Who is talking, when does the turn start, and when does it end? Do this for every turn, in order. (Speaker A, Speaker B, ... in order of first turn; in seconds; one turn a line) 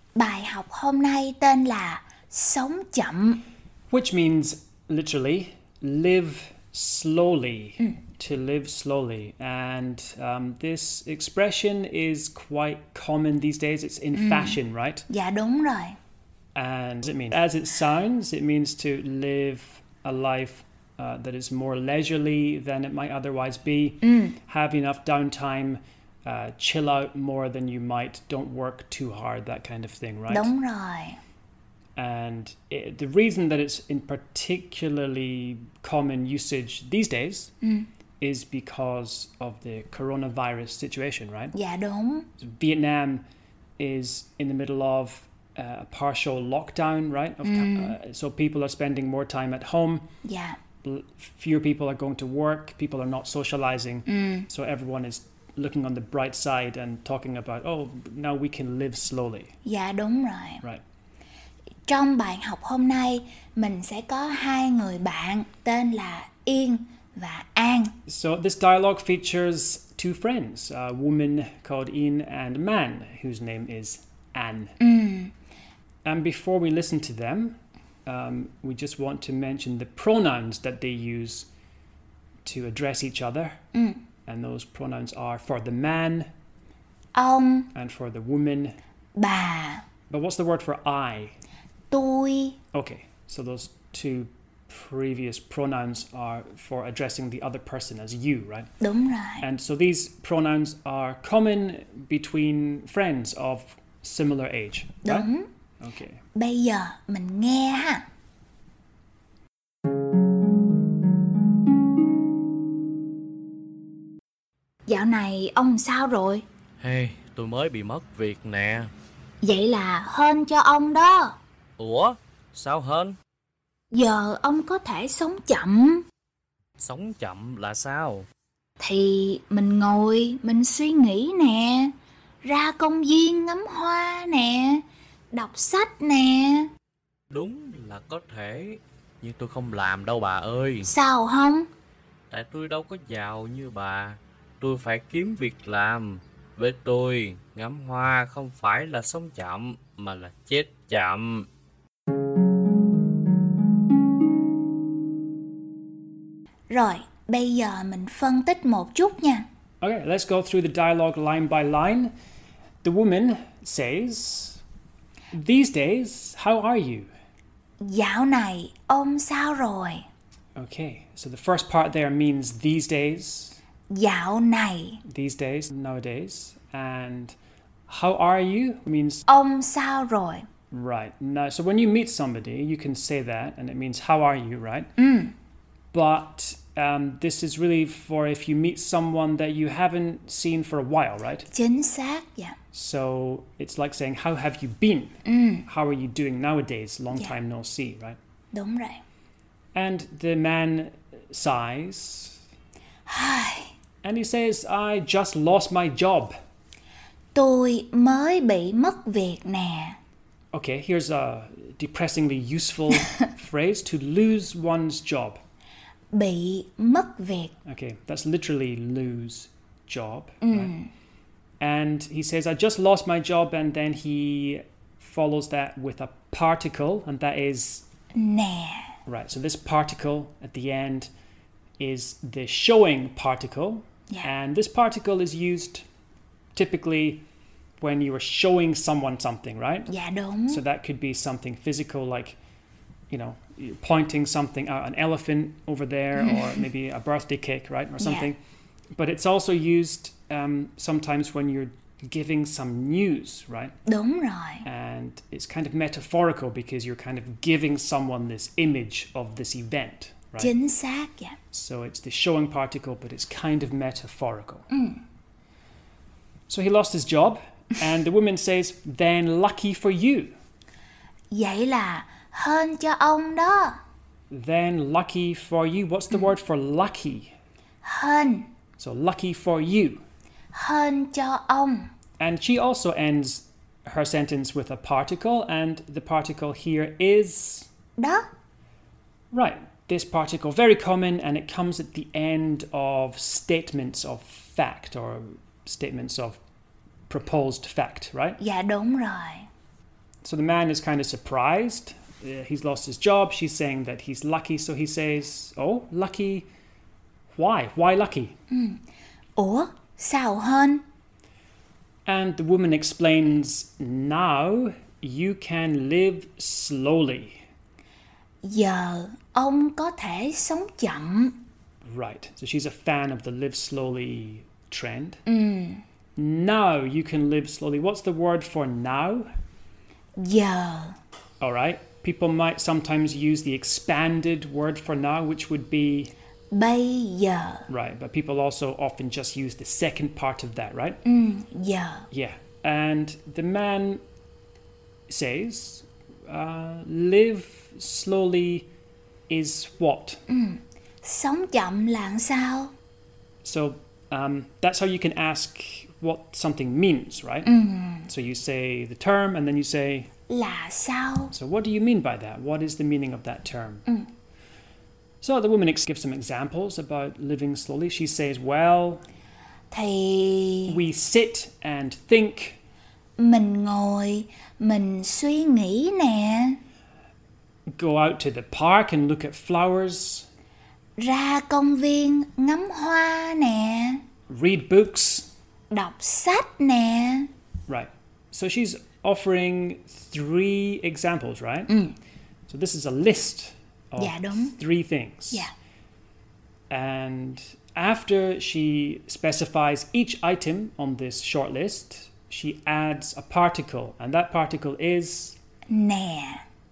Speaker A: 0.2-3.4
Speaker B: 3.9-15.1
Speaker A: 14.2-14.6
Speaker A: 15.1-16.0
Speaker B: 16.6-30.5
Speaker A: 24.0-24.4
Speaker A: 30.3-31.2
Speaker B: 32.0-37.5
Speaker A: 37.6-37.9
Speaker B: 38.2-41.5
Speaker A: 41.5-42.3
Speaker B: 42.4-43.2
Speaker B: 43.8-50.0
Speaker A: 47.4-48.0
Speaker A: 50.2-50.6
Speaker B: 50.8-59.5
Speaker A: 54.1-54.5
Speaker A: 59.6-60.6
Speaker A: 61.9-68.0
Speaker B: 68.1-74.8
Speaker A: 74.8-75.3
Speaker B: 76.0-81.5
Speaker B: 82.5-83.6
Speaker A: 83.7-84.0
Speaker B: 84.3-86.3
Speaker A: 87.2-87.7
Speaker B: 87.8-88.8
Speaker A: 89.2-89.9
Speaker B: 90.1-91.3
Speaker A: 91.9-92.6
Speaker B: 92.7-98.7
Speaker A: 98.8-99.5
Speaker B: 99.4-106.2
Speaker A: 105.0-105.5
Speaker A: 106.3-108.0
Speaker A: 114.9-116.5
Speaker C: 116.8-118.9
Speaker A: 119.4-121.4
Speaker C: 121.8-123.2
Speaker A: 123.9-126.0
Speaker C: 126.8-128.3
Speaker A: 128.8-136.7
Speaker C: 137.3-140.9
Speaker A: 140.8-141.7
Speaker C: 142.3-151.5
Speaker A: 156.7-159.4
Speaker B: 159.8-162.1
Speaker B: 162.8-164.6
Speaker B: 165.3-167.1
Speaker A: 167.8-170.1
Speaker B: 170.6-173.6
Speaker A: 173.9-175.0
Speaker B: 175.1-177.4
Speaker B: 177.9-179.2
Speaker A: 179.3-180.4
Speaker B: 180.7-184.9
Speaker A: 185.0-185.3
Speaker B: 185.9-191.5
Speaker A: 191.5-192.6
Speaker B: 192.7-198.2
Speaker A: 195.3-195.7
Speaker A: 198.5-199.0
Speaker B: 199.7-202.4
Speaker A: 203.1-203.7
Speaker B: 204.0-206.3
Speaker A: 207.3-210.0
Speaker B: 210.5-215.4
Speaker A: 216.1-217.5
Speaker B: 217.7-220.8
Speaker A: 220.4-220.9
Speaker B: 221.6-227.9
Speaker A: 228.2-228.9
Speaker B: 229.1-231.1
Speaker B: 231.8-235.8
Speaker B: 236.6-237.2
Speaker B: 237.8-239.9
Speaker A: 239.9-240.6
Speaker B: 240.5-242.4
Speaker B: 243.1-248.4
Speaker A: 248.0-248.3
Speaker B: 248.9-253.8
Speaker A: 253.9-254.7
Speaker B: 254.7-260.5
Speaker A: 260.4-261.4
Speaker B: 261.5-264.7
Speaker A: 264.7-265.0
Speaker B: 266.5-270.4
Speaker A: 271.3-273.8
Speaker B: 274.3-277.3
Speaker A: 277.8-278.5
Speaker B: 278.8-280.0
Speaker A: 280.5-281.9
Speaker B: 282.2-287.7
Speaker A: 288.0-288.3
Speaker B: 289.3-296.4
Speaker B: 297.1-298.4
Speaker A: 298.4-299.5
Speaker B: 300.2-306.5
Speaker B: 307.3-308.4
Speaker A: 308.5-308.8
Speaker A: 309.4-310.8
Speaker B: 312.1-317.4
Speaker A: 318.4-321.4
Speaker B: 321.8-325.2
Speaker A: 325.3-325.8
Speaker B: 326.2-329.3
Speaker A: 330.2-331.0
Speaker B: 331.4-336.1
Speaker A: 336.5-337.7
Speaker B: 337.7-341.0
Speaker A: 341.1-342.1
Speaker B: 342.1-344.0
Speaker B: 345.1-348.7
Speaker B: 349.3-350.2
Speaker A: 350.3-352.7
Speaker B: 353.4-357.5
Speaker A: 357.4-358.1
Speaker B: 358.1-360.1
Speaker A: 360.3-361.3
Speaker B: 361.3-363.9
Speaker B: 365.2-369.0
Speaker A: 369.7-370.8
Speaker B: 370.7-372.6
Speaker A: 373.2-376.6
Speaker B: 377.7-380.3
Speaker A: 381.0-384.0
Speaker B: 384.3-385.3
Speaker A: 385.7-387.3
Speaker B: 387.7-391.7
Speaker A: 391.7-392.0
Speaker B: 392.5-395.5
Speaker A: 394.0-394.6
Speaker B: 396.7-405.4
Speaker A: 405.7-406.4